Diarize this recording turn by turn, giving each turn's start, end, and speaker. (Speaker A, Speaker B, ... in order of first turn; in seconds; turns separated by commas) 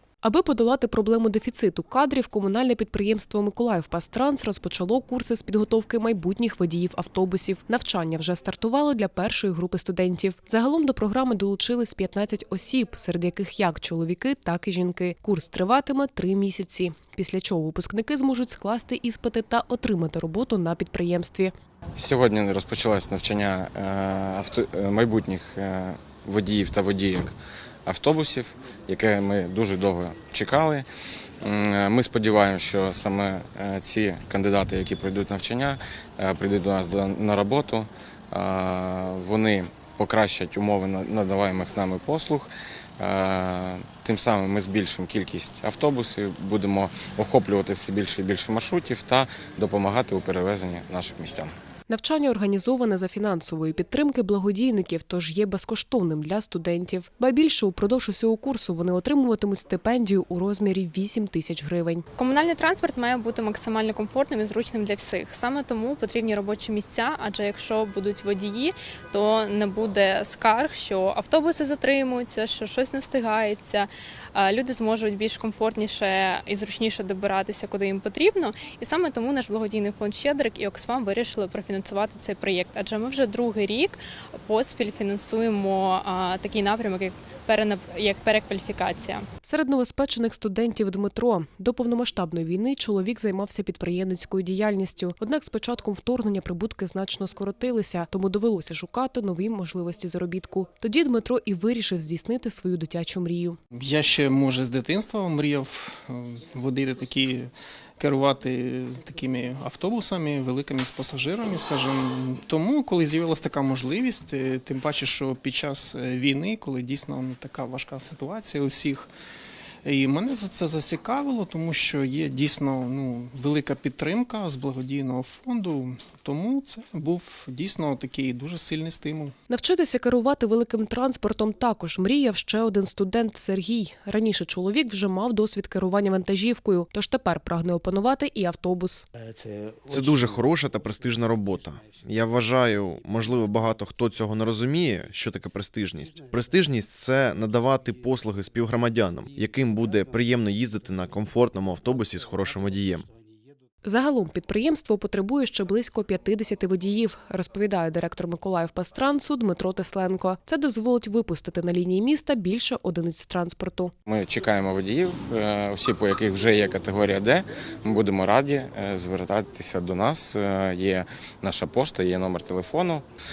Speaker A: 0.2-21.5, Speaker B: 22.0-27.3, Speaker B: 27.9-30.9, Speaker B: 31.4-51.5, Speaker A: 51.9-62.1, Speaker C: 62.2-89.2, Speaker A: 89.5-103.6, Speaker D: 103.8-119.1, Speaker D: 119.8-129.3, Speaker A: 129.5-139.1, Speaker E: 139.9-153.1, Speaker A: 153.8-163.9, Speaker B: 164.1-173.1